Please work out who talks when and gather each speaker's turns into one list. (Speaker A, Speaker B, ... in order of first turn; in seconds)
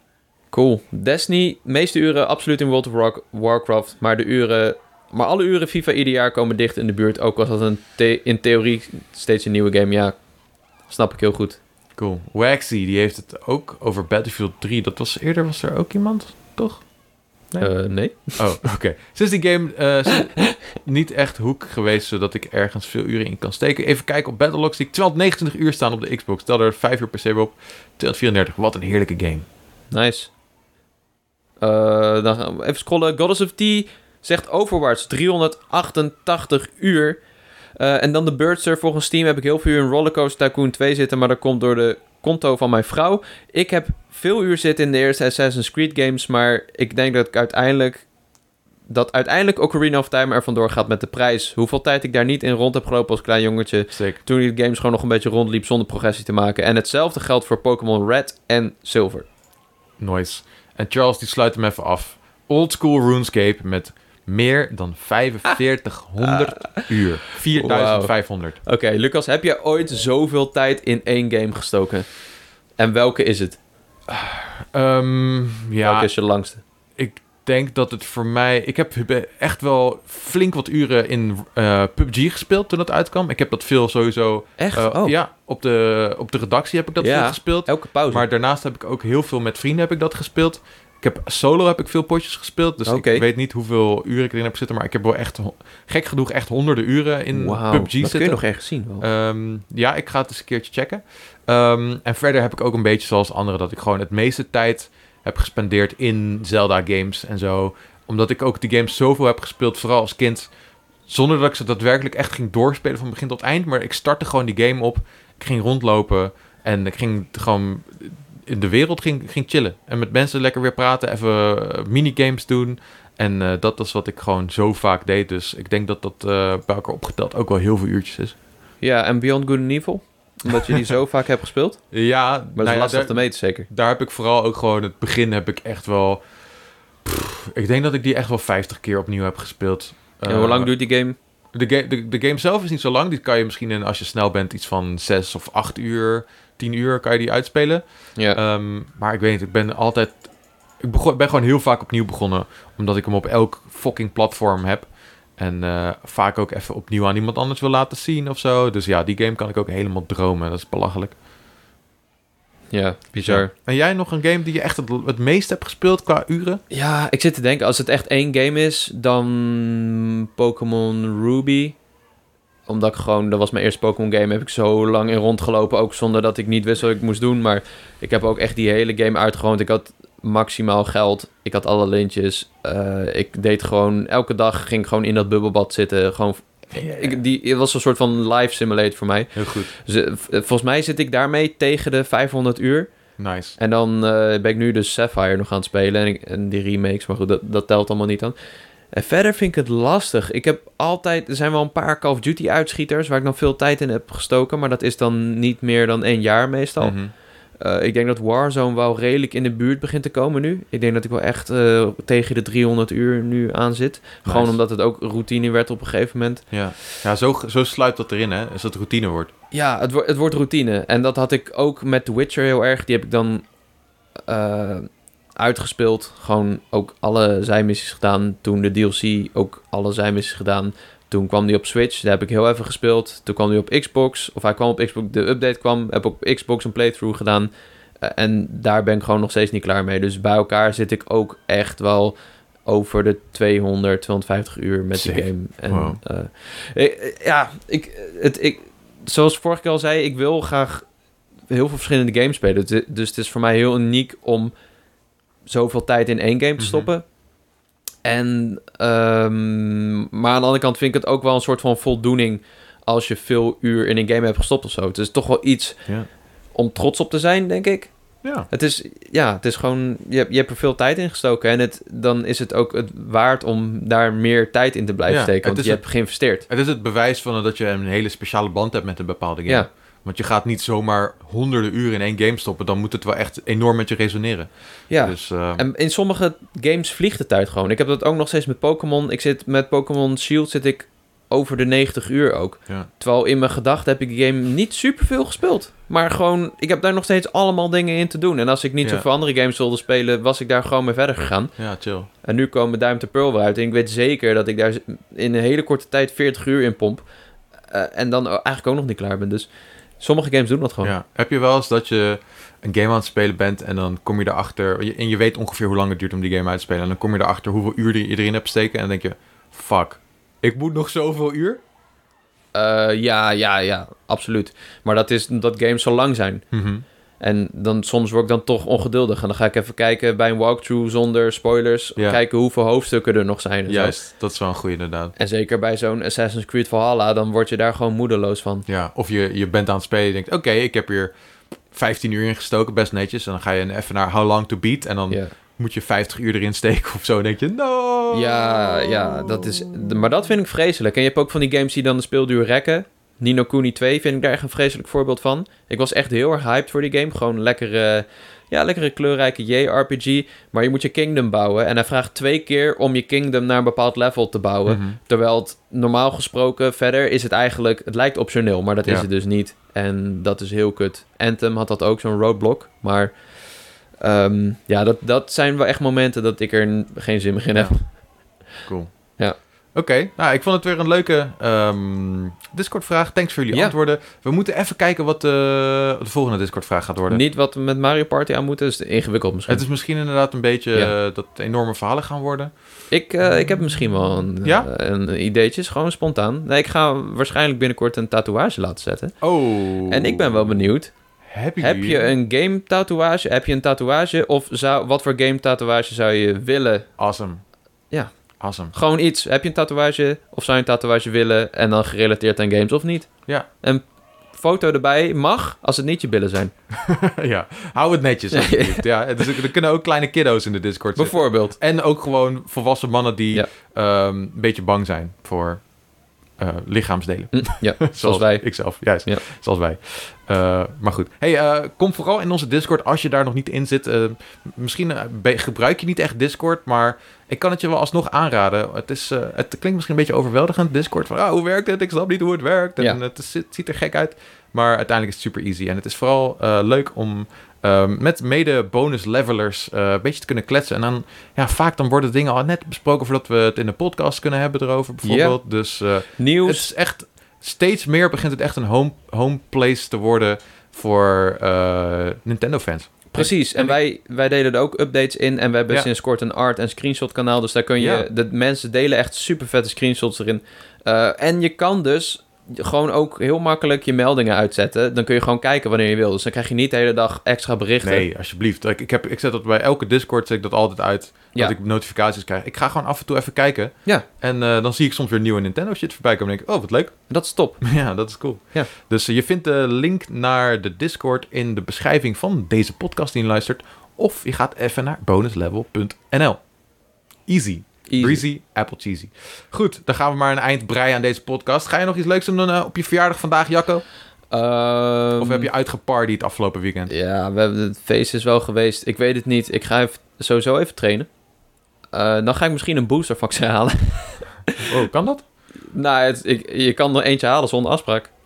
Speaker A: 0.5-10.2, 10.9-11.6, 17.6-18.5, 29.9-30.3, 31.6-37.2, 37.8-48.1, 48.9-59.3, 66.2-66.9, 67.5-72.1, 72.8-73.6, 75.8-76.6, 84.6-85.2, 87.0-88.3, 92.9-93.2, 97.3-99.0, 128.8-131.8, 132.6-133.7, 140.3-141.2, 162.7-163.5, 166.7-171.8, 172.7-192.9, 193.6-198.3, 198.9-207.0, 207.6-216.4, 219.5-223.4, 224.3-250.8, 251.5-254.5, 255.5-257.1, 258.1-265.8, 266.6-267.9, 268.5-276.5, 284.9-301.6, 302.2-307.0, 307.7-309.5, 310.0-310.9, 322.6-326.4, 327.2-334.0, 335.2-338.6, 348.1-373.1, 374.0-377.8, 387.1-389.6, 392.9-399.1, 399.9-400.9, 401.6-406.9, 408.7-416.5, 418.3-419.4, 421.0-421.6, 427.3-429.2, 455.0-455.4, 456.2-456.7, 463.1-478.1, 487.1-487.6, 497.9-498.2, 504.3-505.5, 506.9-511.1, 511.9-514.7, 515.7-518.1
Speaker B: 12.0-16.8, 18.4-29.5, 53.9-54.2, 60.0-68.6, 74.1-76.1, 77.0-98.4, 99.0-110.5, 111.1-128.3, 131.9-136.2, 137.0-140.7, 141.5-150.3, 150.8-161.2, 163.1-166.6, 186.8-187.2, 189.4-189.7, 193.2-193.6, 206.8-207.1, 214.3-214.6, 216.5-219.3, 244.9-246.0, 256.6-256.9, 275.1-275.9, 276.5-285.6, 301.6-302.1, 310.8-321.6, 326.5-326.8, 333.7-335.1, 338.7-341.1, 341.7-349.9, 364.7-365.0, 378.7-378.9, 379.7-387.2, 389.5-392.5, 394.4-394.7, 399.2-400.7, 401.3-402.1, 407.0-407.4, 408.4-408.7, 416.7-425.6, 426.4-463.8, 467.8-468.1, 477.8-486.9, 487.6-496.4, 497.3-503.8, 505.2-506.9, 514.6-515.2